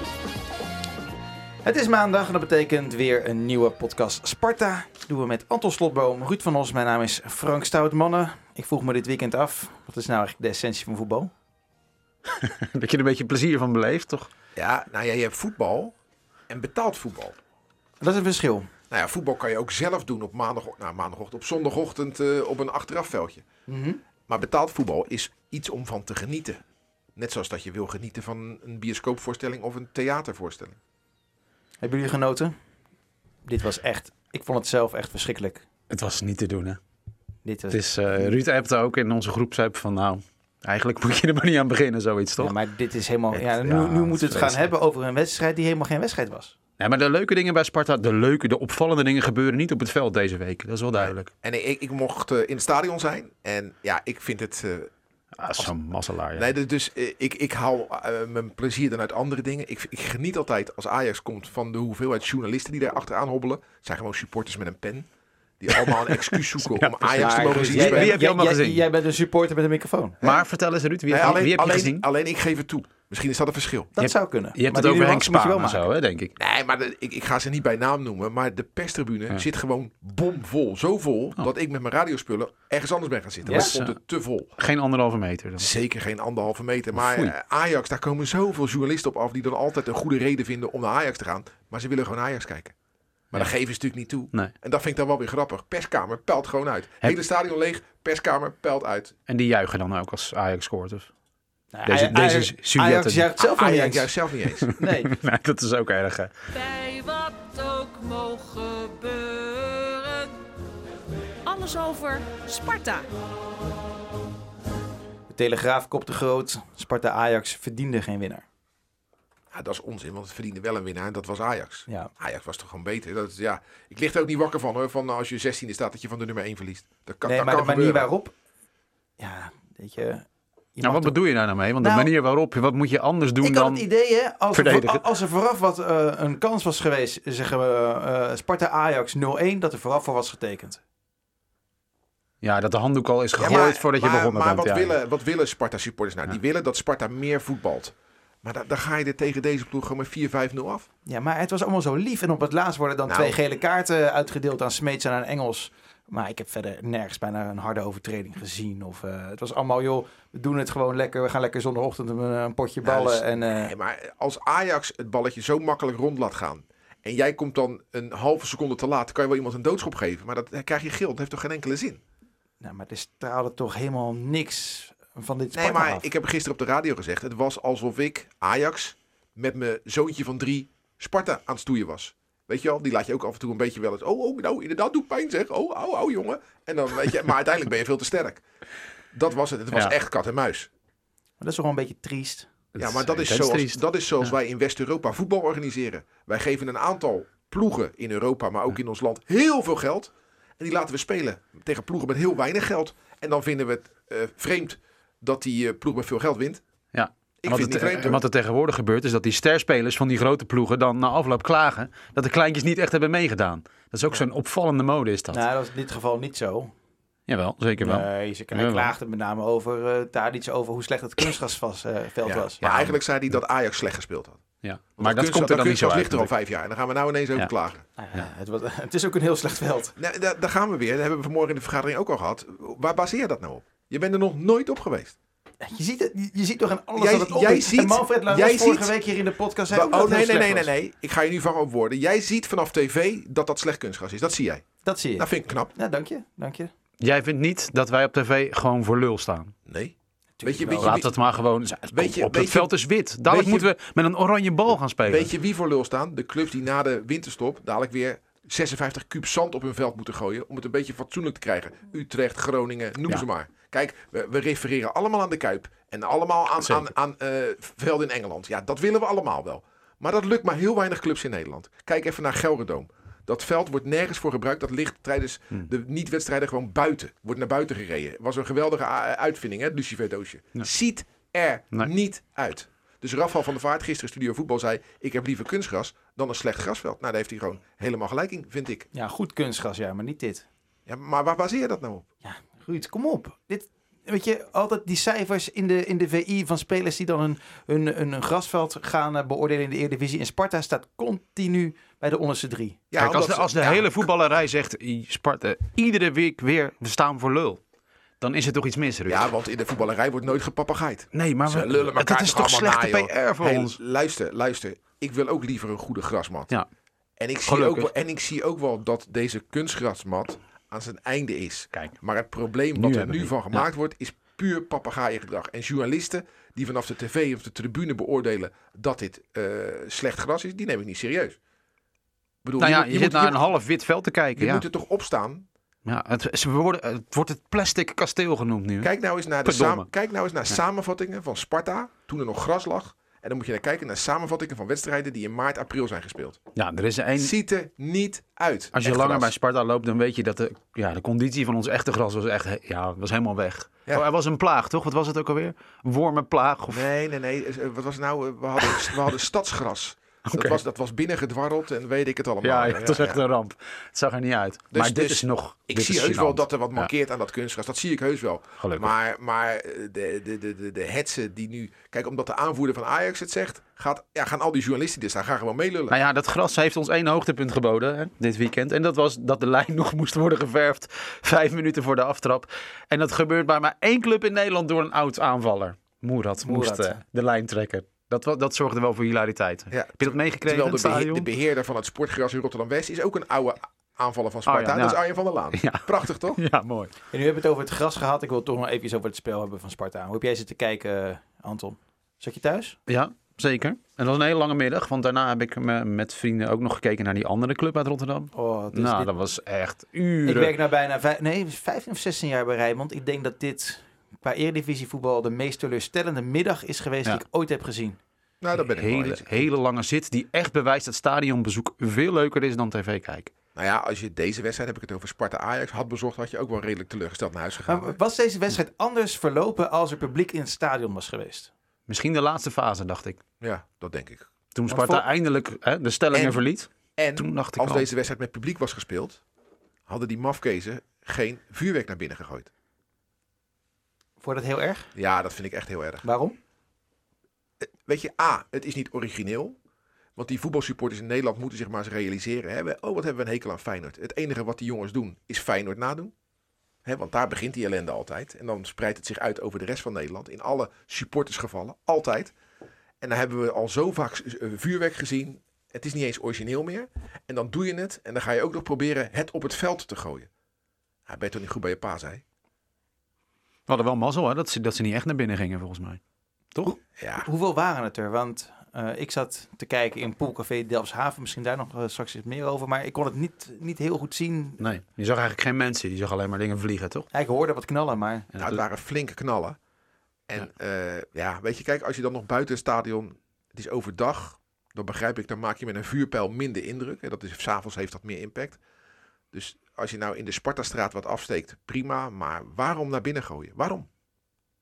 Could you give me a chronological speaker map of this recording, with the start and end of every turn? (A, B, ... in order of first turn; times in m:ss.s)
0:01.6-0:11.3 A
0:12.3-0:14.3 B
0:14.6-0:15.9 C
0:16.5-0:17.3 C
0:18.0-0:18.7 A
0:18.9-0:23.4 C
0:23.7-0:24.0 A
0:24.3-0:26.6 C
0:27.2-0:30.8 C
0:31.8-0:32.6 A
0:33.4-0:35.6 A
0:35.9-0:36.8 B
0:37.4-0:38.3 A
0:37.7-0:42.5 B
0:42.4-0:46.5 A
0:43.3-0:44.7 B
0:46.8-0:51.3 B
0:50.9-0:54.9 C
0:55.4-0:56.5 B
0:56.3-1:05.1 C
1:05.6-1:08.2 C
1:05.8-1:08.8 B
1:07.2-1:10.2 A
1:10.2-1:12.0 B
1:11.1-1:13.9 C
1:13.9-1:15.9 A
1:14.0-1:16.3 B
1:16.4-1:24.5 C
1:23.4-1:23.7 A
1:23.4-1:24.0 B
1:24.6-1:25.7 B
1:25.6-1:32.7 C
1:26.9-1:27.3 B
1:33.3-1:39.1 C
1:39.3-1:41.1 B
1:41.7-1:44.1 A
1:41.8-1:43.3 B
1:43.4-1:44.7 C
1:44.5-1:46.3 B
1:44.8-1:45.2 A
1:46.5-1:50.3 D
1:51.4-1:53.1 D
1:55.3-1:58.4 A
1:59.5-2:08.1 C
2:07.2-2:08.3 A
2:09.2-2:11.2 A
2:10.8-2:13.8 B
2:11.8-2:12.1 A
2:13.4-2:20.8 A
2:14.5-2:15.0 B
2:22.4-2:24.9 B
2:23.4-2:30.9 C
2:31.0-2:43.7 A
2:33.1-2:33.4 C
2:42.8-2:52.0 C
2:52.6-2:56.0 A
2:55.5-3:08.4 C
3:09.1-3:10.7 C
3:11.4-3:12.5 A
3:12.7-3:14.2 B
3:12.8-3:26.6 C
3:26.9-3:35.4 B
3:27.4-3:28.2 C
3:35.3-3:36.7 A
3:37.3-3:38.9 B
3:37.8-3:42.6 A
3:42.2-3:44.4 C
3:42.6-3:43.0 B
3:44.6-3:46.3 B
3:45.0-3:47.8 C
3:48.0-3:49.9 A
3:50.0-3:55.2 C
3:55.6-4:00.7 A
3:57.0-3:58.9 C
3:59.7-4:04.6 C
4:04.8-4:06.7 A
4:05.2-4:05.7 C
4:07.0-4:09.5 B
4:09.6-4:11.1 C
4:10.4-4:11.0 A
4:10.8-4:15.3 B
4:11.9-4:12.7 C
4:13.2-4:13.7 C
4:15.0-4:48.9 C
4:26.6-4:26.9 B
4:48.9-4:50.5 A
4:50.8-4:52.0 C
4:52.2-5:02.8 A
5:02.9-5:04.0 C
5:03.0-5:07.6 B
5:08.2-5:09.3 B
5:09.1-5:16.5 C
5:11.1-5:13.8 B
5:17.2-5:31.4 C
5:17.4-5:17.9 B
5:22.7-5:23.6 B
5:32.4-5:33.4 C
5:32.6-5:34.6 B
5:34.4-5:35.5 C
5:35.8-5:38.9 B
5:38.8-5:46.4 C
5:39.4-5:39.9 B
5:46.5-5:47.3 B
5:47.2-5:49.3 C
5:48.7-5:56.9 B
5:56.7-6:03.2 C
5:58.7-5:58.9 B
6:00.2-6:00.6 B
6:02.4-6:06.9 B
6:04.7-6:16.0 C
6:08.6-6:08.9 B
6:15.9-6:31.3 B
6:26.4-6:27.0 A
6:29.7-6:36.4 C
6:34.4-6:35.0 B
6:35.5-6:36.9 B
6:37.1-6:42.8 A
6:42.9-6:50.5 B
6:48.3-6:49.1 A
6:50.2-6:58.0 A
6:58.4-6:59.5 C
6:58.6-7:03.3 B
7:03.5-7:07.9 C
7:07.6-7:11.5 A
7:11.9-7:13.2 B
7:13.4-7:14.3 C
7:14.5-7:17.9 B
7:14.7-7:15.0 A
7:16.1-7:16.4 C
7:17.0-7:19.2 C
7:19.9-7:22.5 C
7:24.2-7:24.9 A
7:24.9-7:26.0 C
7:26.0-7:26.4 A
7:27.6-7:29.6 C
7:30.2-7:36.1 C
7:36.8-7:42.3 C
7:43.0-7:50.3 C
7:51.1-7:52.2 C
7:53.7-7:56.0 B
7:56.6-8:04.6 A
7:57.0-7:57.3 C
8:04.6-8:07.1 B
8:07.1-8:08.3 A
8:08.3-8:08.6 B
8:08.4-8:09.6 C
8:10.3-8:18.6 C
8:19.3-8:23.9 C